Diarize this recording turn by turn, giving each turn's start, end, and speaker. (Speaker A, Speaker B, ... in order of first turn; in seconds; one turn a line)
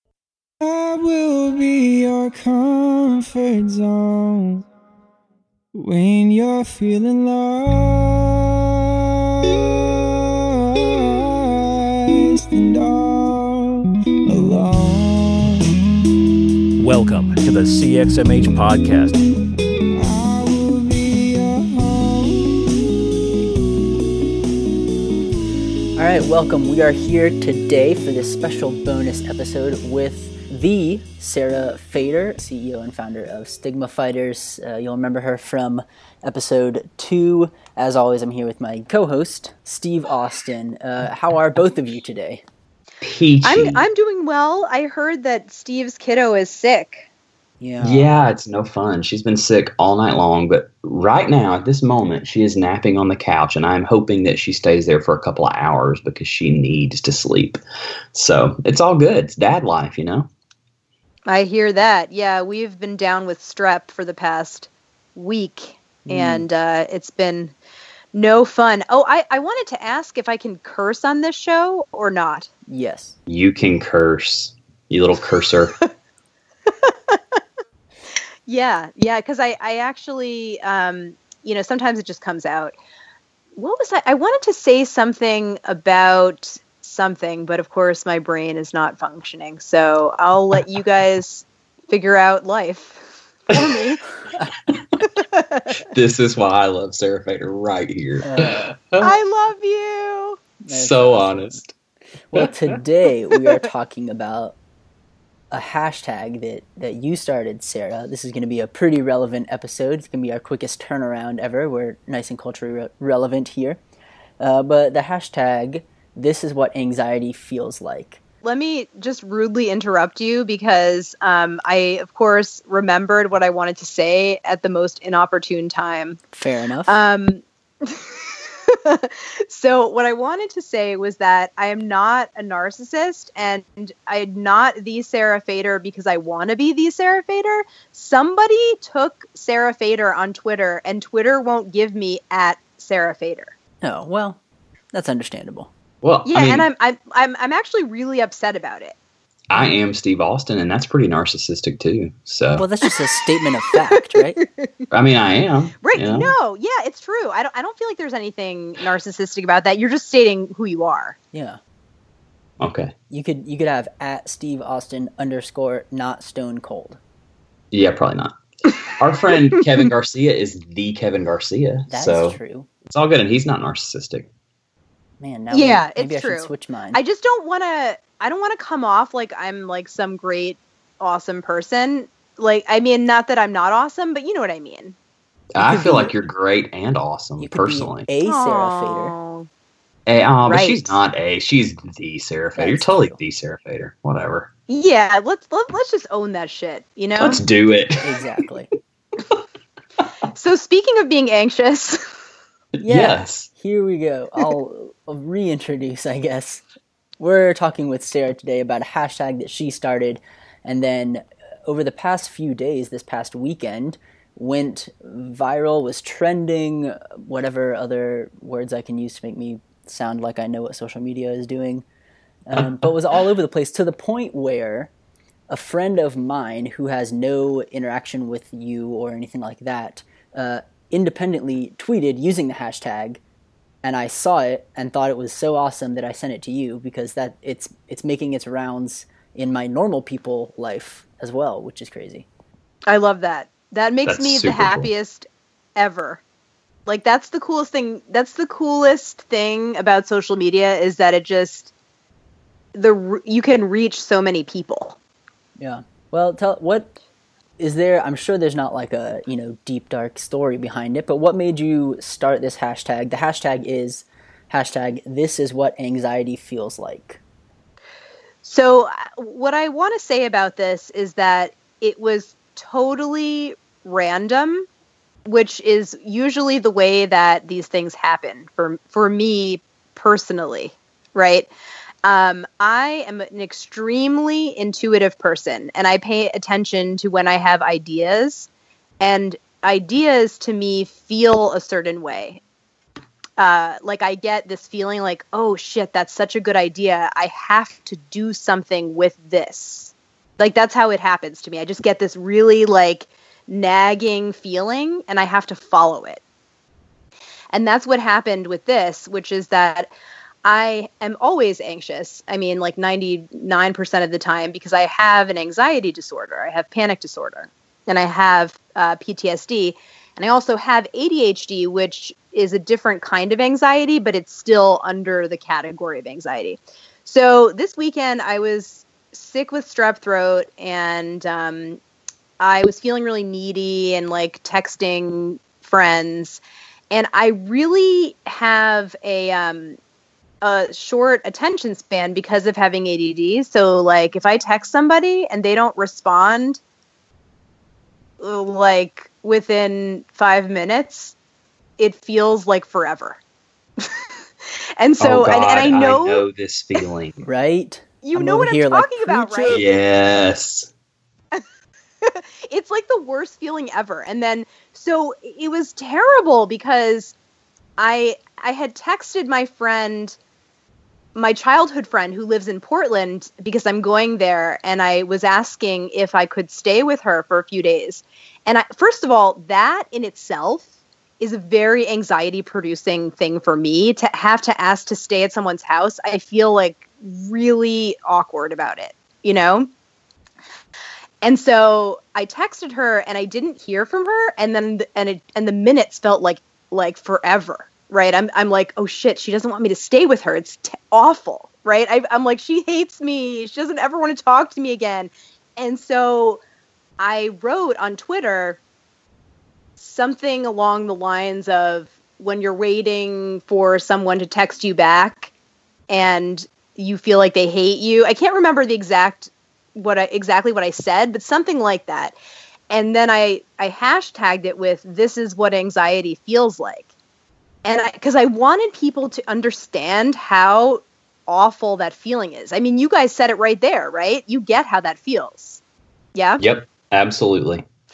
Speaker A: 0.6-4.6
Speaker A: 5.7-15.7
Speaker B: 16.8-19.2
Speaker A: 19.9-22.8
Speaker C: 25.9-42.4
Speaker D: 43.0-43.8
Speaker E: 43.4-47.0
Speaker C: 47.6-48.1
Speaker D: 47.8-57.6
Speaker D: 58.1-60.3
Speaker E: 61.3-67.5
Speaker C: 66.0-66.5
Speaker E: 68.1-72.5
Speaker C: 72.7-73.2
Speaker D: 73.3-75.8
Speaker E: 76.7-77.4
Speaker E: 78.5-82.7
Speaker E: 83.6-94.0
Speaker E: 95.3-95.8
Speaker D: 95.8-99.1
Speaker C: 98.2-98.7
Speaker E: 99.0-100.4
Speaker C: 100.6-101.6
Speaker D: 100.7-101.7
Speaker C: 102.3-104.6
Speaker D: 102.3-102.7
Speaker C: 105.5-113.8
Speaker C: 114.4-118.2
Speaker E: 118.4-126.2
Speaker C: 126.3-127.0
Speaker E: 126.9-143.5
Speaker C: 143.8-144.4
Speaker C: 144.9-145.7
Speaker D: 146.0-146.7
Speaker E: 146.2-148.9
Speaker D: 149.5-152.7
Speaker C: 152.6-154.4
Speaker E: 154.1-154.7
Speaker D: 154.9-156.3
Speaker E: 155.8-161.2
Speaker C: 161.3-161.6
Speaker D: 162.6-162.9
Speaker C: 163.1-167.0
Speaker D: 167.7-168.3
Speaker D: 168.9-174.3
Speaker C: 171.9-172.7
Speaker C: 175.2-177.0
Speaker E: 175.5-184.9
Speaker D: 185.5-188.1
Speaker C: 185.6-186.1
Speaker E: 185.7-186.1
Speaker C: 187.4-189.1
Speaker E: 188.2-189.5
Speaker D: 190.1-194.5
Speaker E: 190.5-191.0
Speaker C: 192.5-193.2
Speaker E: 194.7-197.4
Speaker D: 197.2-198.1
Speaker C: 198.0-198.7
Speaker E: 200.3-202.0
Speaker D: 202.8-203.5
Speaker C: 202.8-206.6
Speaker C: 207.2-221.8
Speaker C: 222.5-224.9
Speaker C: 225.5-233.2
Speaker C: 233.8-242.3
Speaker E: 242.9-246.2
Speaker D: 244.1-244.9
Speaker E: 246.9-251.7
Speaker E: 252.7-255.0
Speaker C: 255.6-257.0
Speaker C: 257.6-267.2
Speaker E: 268.4-274.6
Speaker E: 275.2-281.5
Speaker E: 282.0-288.5
Speaker E: 289.0-292.4
Speaker E: 293.4-306.2
Speaker E: 307.5-309.9
Speaker E: 310.4-331.8
Speaker E: 332.4-339.8
Speaker E: 340.4-346.6
Speaker E: 348.2-351.1
Speaker E: 351.8-353.2
Speaker E: 354.8-356.2
Speaker D: 355.0-357.2
Speaker C: 357.2-359.6
Speaker E: 358.0-359.6
Speaker D: 359.5-360.7
Speaker E: 362.0-367.1
Speaker E: 367.8-370.2
Speaker E: 371.1-380.7
Speaker E: 381.2-389.7
Speaker E: 391.2-406.4
Speaker E: 407.0-408.6
Speaker E: 409.8-415.3
Speaker E: 415.9-422.1
Speaker E: 422.7-426.9
Speaker E: 427.6-435.6
Speaker E: 436.1-436.4
Speaker D: 436.4-437.6